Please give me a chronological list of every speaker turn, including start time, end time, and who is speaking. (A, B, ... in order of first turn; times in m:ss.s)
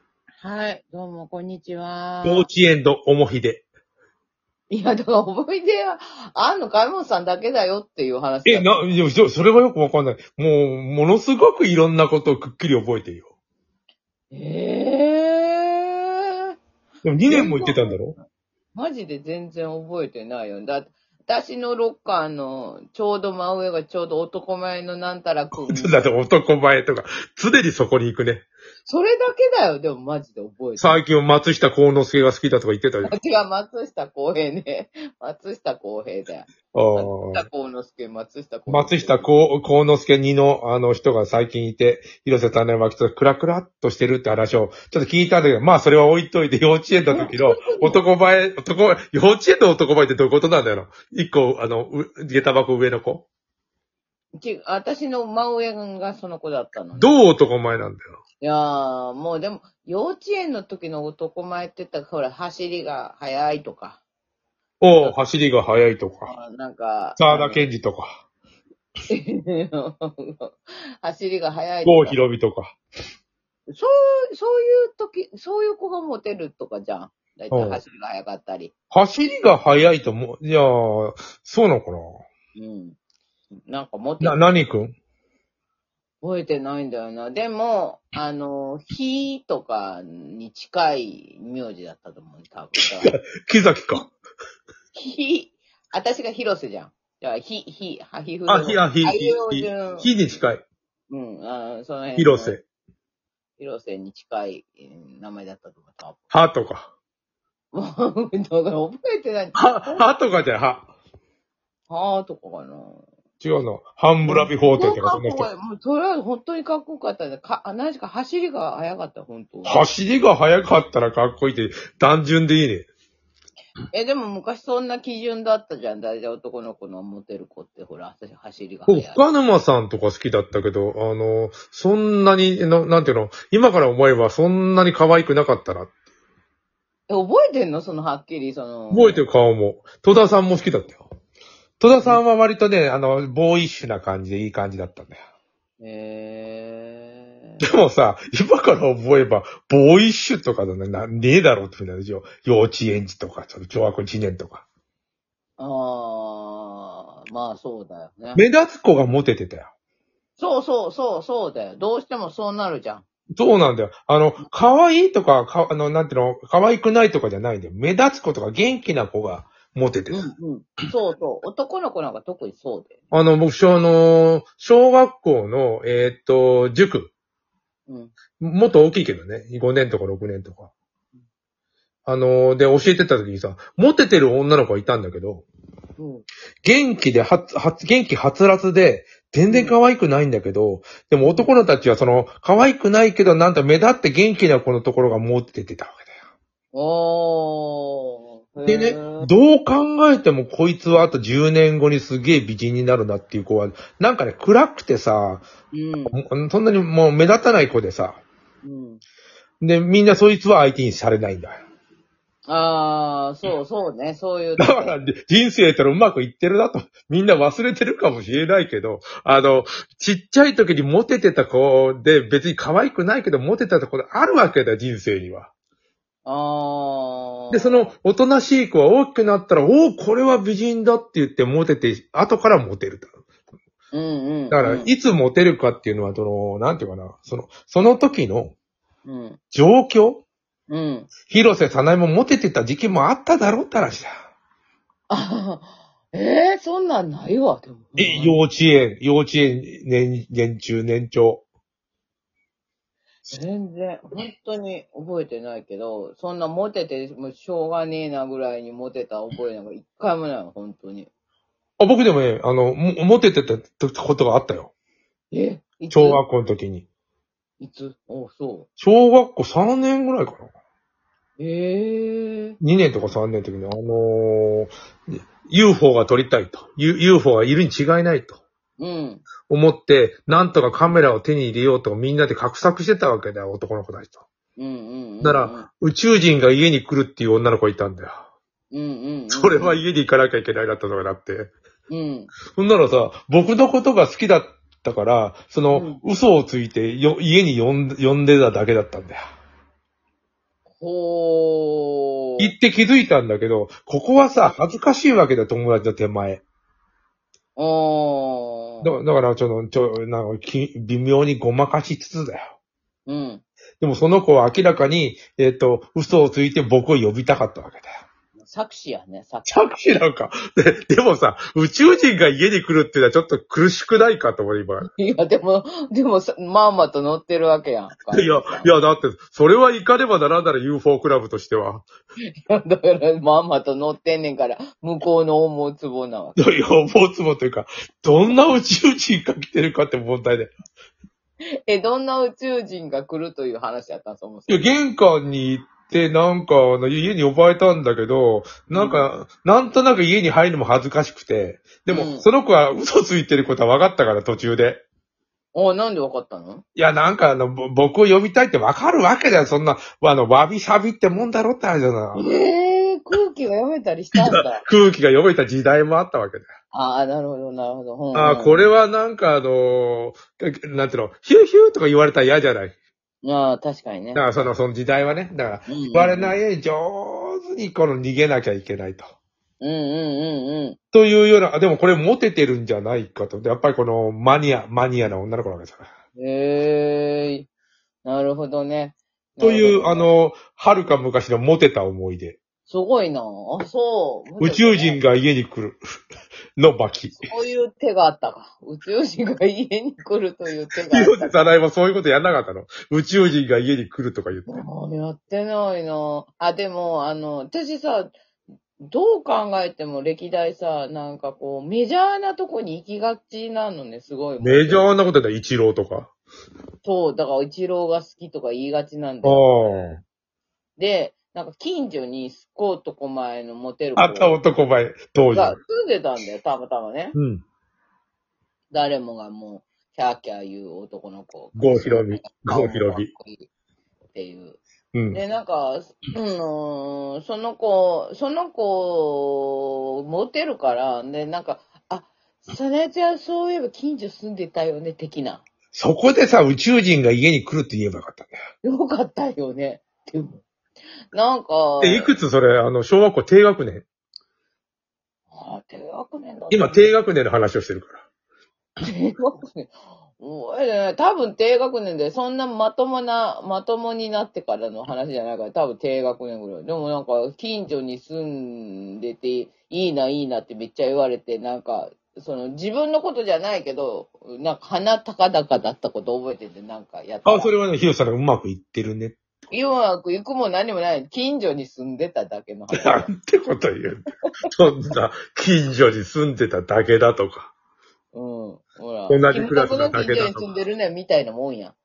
0:00.4-0:02.5 A
0:02.2-0:03.6 B
0:04.7-0:09.0 A
0:08.4-0:13.3 B
0:14.3-0:16.5 A
0:17.0-0:18.2 B
0:17.3-0:18.0 A
0:18.7-0:26.0 A
0:25.5-0:28.5 B
0:28.8-0:31.0 A
0:30.8-0:33.1 B
0:33.0-0:39.3 A
0:36.7-0:37.4 B
0:38.7-0:53.3 B
0:47.1-0:48.0 A
0:54.4-0:57.1 A
0:57.0-0:58.2 B
0:58.4-1:04.0 A
1:04.8-1:06.3 B
1:06.2-1:07.7 A
1:07.2-1:08.2 B
1:09.1-1:12.2 A
1:11.8-1:12.8 B
1:13.7-1:18.7 A
1:17.5-1:17.8 B
1:18.9-1:22.2 B
1:22.6-1:23.0 A
1:23.7-1:24.4 A
1:24.2-1:25.0 B
1:26.2-1:33.2 A
1:32.8-1:34.1 B
1:34.9-1:40.1 A
1:38.4-1:40.6 B
1:41.1-1:42.6 A
1:42.2-1:42.6 B
1:43.6-1:46.2 A
1:46.3-1:46.9 B
1:47.7-1:50.0 A
1:49.6-1:50.9 B
1:51.9-1:53.1 A
1:53.4-1:55.5 B
1:54.3-1:59.8 A
1:59.6-2:02.9 B
2:03.9-2:09.2 A
2:08.9-2:15.9 B
2:17.1-2:19.2 A
2:18.9-2:21.0 B
2:21.8-2:25.2 B
2:25.8-2:27.6 A
2:27.6-2:34.6 B
2:35.6-2:38.4 A
2:38.3-2:39.7 B
2:40.4-2:43.0 A
2:43.4-2:50.2 B
2:50.1-2:53.0 A
2:53.1-2:57.1 B
2:57.9-2:58.1 A
2:58.4-3:00.7 B
3:02.0-3:05.4 B
3:06.0-3:06.2 A
3:06.6-3:16.0 B
3:09.5-3:09.8 A
3:11.2-3:11.5 A
3:16.7-3:19.3 A
3:18.7-3:25.4 B
3:25.7-3:26.2 A
3:26.1-3:28.2 B
3:28.6-3:29.0 A
3:29.6-3:31.6 B
3:32.5-3:34.9 A
3:34.6-3:45.5 B
3:46.2-3:47.9 A
3:47.5-3:53.1 B
3:53.9-3:54.9 A
3:54.5-3:58.5 B
3:59.0-3:59.4 A
3:59.5-4:00.2 B
4:00.7-4:01.1 A
4:01.3-4:04.1 B
4:05.1-4:08.4 A
4:08.0-4:11.4 B
4:13.3-4:21.1 A
4:21.8-4:24.7 B
4:25.3-4:26.2 A
4:25.9-4:26.9 B
4:27.6-4:28.7 A
4:28.8-4:30.5 B
4:31.4-4:32.6 A
4:32.6-4:38.4 B
4:38.8-4:39.2 A
4:39.5-4:44.2 B
4:44.6-4:45.7 A
4:45.2-4:48.2 B
4:48.7-4:49.8 A
4:49.3-4:51.5 B
4:51.9-4:52.3 A
4:52.5-4:59.2 B
4:55.7-4:56.0 A
5:00.8-5:02.5 A
5:02.4-5:06.4 B
5:07.6-5:08.9 A
5:08.8-5:12.5 B
5:13.1-5:13.4 A
5:13.8-5:17.9 B
5:18.4-5:19.7 A
5:19.5-5:24.9 B
5:24.8-5:28.8 A
5:28.1-5:31.9 B
5:32.3-5:36.4 A
5:36.4-5:40.5 B
5:41.6-5:44.7 A
5:44.5-5:54.8 B
5:48.7-5:49.1 A
5:51.9-5:52.3 A
5:55.5-5:56.6 A
5:56.8-6:02.3 B
6:02.1-6:04.6 A
6:04.1-6:06.4 B
6:06.7-6:08.7 A
6:08.1-6:12.7 B
6:13.2-6:14.3 A
6:14.1-6:19.1 B
6:15.7-6:16.4 A
6:19.6-6:20.8 A
6:20.9-6:25.9 B
6:26.2-6:27.5 A
6:28.0-6:30.1 A
6:29.4-6:32.4 B
6:32.7-6:35.0 A
6:34.4-6:35.8 B
6:36.6-6:37.2 B
6:37.2-6:41.5 A
6:40.9-6:44.6 B
6:44.4-6:48.1 A
6:48.8-6:54.9 A
6:54.4-6:56.1 B
6:56.8-7:00.0 A
6:59.2-7:00.0 B
7:00.8-7:04.4 A
7:04.0-7:05.6 B
7:05.3-7:07.2 A
7:07.2-7:07.4 B
7:08.7-7:13.5 A
7:11.6-7:13.1 B
7:14.1-7:14.6 A
7:14.9-7:15.2 B
7:15.1-7:25.4 A
7:25.7-7:28.3 B
7:28.6-7:30.4 A
7:31.1-7:32.2 A
7:31.8-7:33.8 B
7:35.3-7:36.9 A
7:36.5-7:38.0 B
7:38.8-7:57.5 A
7:57.2-7:59.2 B
7:59.5-8:03.1 A
8:02.7-8:07.5 B
8:08.1-8:11.8 A
8:09.1-8:10.5 B